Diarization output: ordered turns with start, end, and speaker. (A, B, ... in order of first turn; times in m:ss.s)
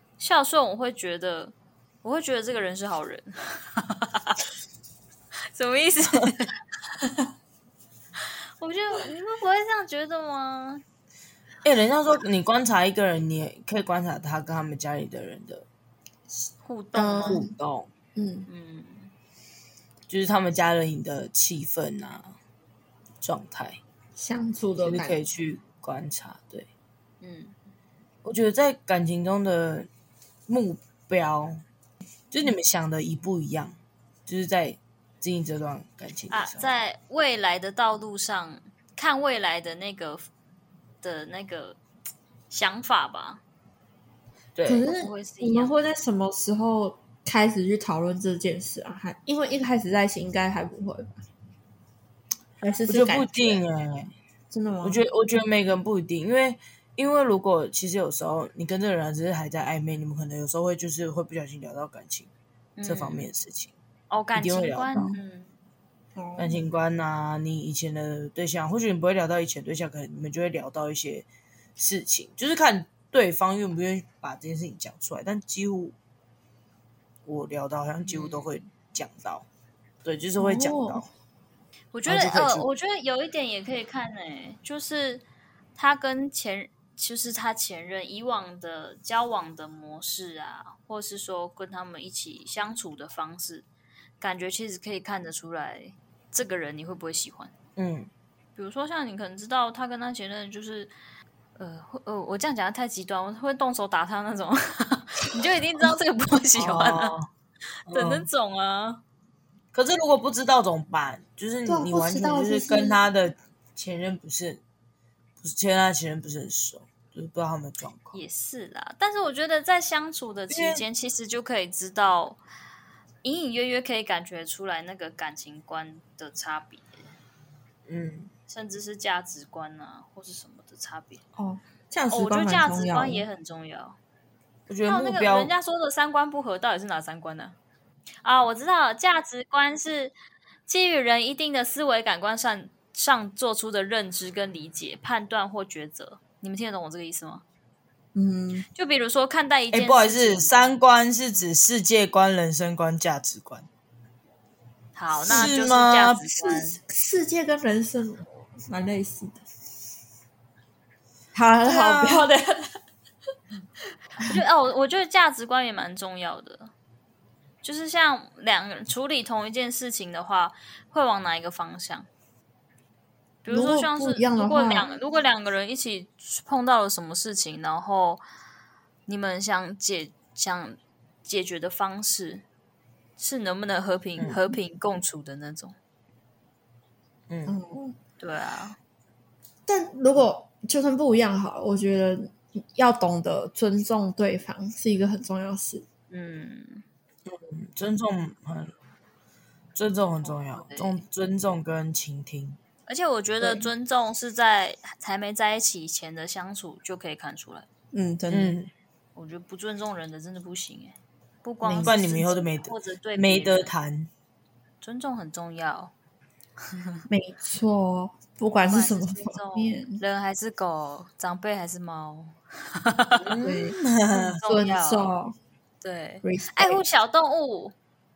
0:00.2-0:04.4 A
0:05.5-0:06.6 A
0:08.2-0:10.8 A
0:11.6-0:15.7 B
0:16.6-0:17.4 A
0:16.9-0:17.5 C
0:17.2-0:17.9 B
0:18.2-0:18.5 C
0:18.5-0:19.1 A
0:20.1-0:22.3 B
0:23.2-0:23.8 B
0:24.2-0:25.2 C
0:24.8-0:26.7 B
0:27.2-0:27.6 A
0:28.2-0:29.9 B
0:30.5-0:31.6 B
0:32.3-0:33.8 B
0:34.3-0:36.7 B
0:36.3-0:40.3 A
0:41.0-0:41.8 A
0:42.5-0:43.4 A
0:44.6-0:44.9 B
0:44.7-0:51.2 C
0:44.9-0:45.8 A
0:52.6-0:53.6 C
0:52.9-0:54.1 B
0:54.5-0:55.0 C
0:54.8-1:02.3 B
1:02.8-1:03.3 A
1:02.8-1:03.7 B
1:04.1-1:05.5 A
1:04.4-1:05.2 B
1:06.2-1:06.6 C
1:06.4-1:11.3 B
1:11.8-1:16.0 B
1:17.3-1:19.5 B
1:18.1-1:18.6 A
1:20.0-1:21.1 B
1:20.4-1:21.0 C
1:21.9-1:25.2 A
1:22.1-1:22.7 B
1:25.8-1:33.7 A
1:34.2-1:37.5 A
1:37.8-1:38.1 B
1:38.6-1:40.9 A
1:41.6-1:47.2 A
1:46.6-1:47.3 B
1:47.9-1:48.3 B
1:47.9-1:49.0 A
1:49.7-1:54.6 B
1:51.7-1:53.0 C
1:55.4-1:58.2 B
1:58.1-2:02.4 A
2:00.5-2:00.8 B
2:03.2-2:07.0 A
2:07.9-2:08.3 B
2:08.5-2:11.2 A
2:11.4-2:13.3 C
2:12.1-2:14.0 A
2:14.7-2:15.5 B
2:14.9-2:17.6 A
2:18.2-2:20.2 A
2:20.7-2:27.4 A
2:28.2-2:28.7 C
2:28.8-2:30.6 A
2:29.7-2:33.7 B
2:35.0-2:36.8 A
2:35.2-2:36.3 B
2:35.3-2:35.6 C
2:36.4-2:39.4 C
2:41.3-2:42.7 C
2:41.6-2:42.3 B
2:44.2-2:46.7 A
2:47.6-2:52.1 A
2:53.4-2:58.2 A
2:53.5-2:54.9 C
2:59.1-3:02.4 A
3:03.2-3:05.8 A
3:07.3-3:07.6 B
3:07.5-3:08.0 C
3:08.2-3:08.8 A
3:09.7-3:15.8 C
3:16.1-3:16.8 A
3:17.3-3:18.7 B
3:19.8-3:22.6 B
3:20.2-3:21.0 A
3:22.9-3:27.7 A
3:23.4-3:23.7 C
3:27.9-3:28.6 C
3:28.3-3:28.7 B
3:29.2-3:33.7 A
3:31.6-3:32.0 C
3:31.8-3:34.1 B
3:34.8-3:35.9 A
3:36.7-3:37.0 A
3:37.1-3:40.0 C
3:38.7-3:43.3 A
3:43.2-3:44.4 B
3:43.4-3:43.8 C
3:44.1-3:45.1 A
3:44.4-3:45.4 C
3:45.8-3:47.8 A
3:46.2-3:46.8 C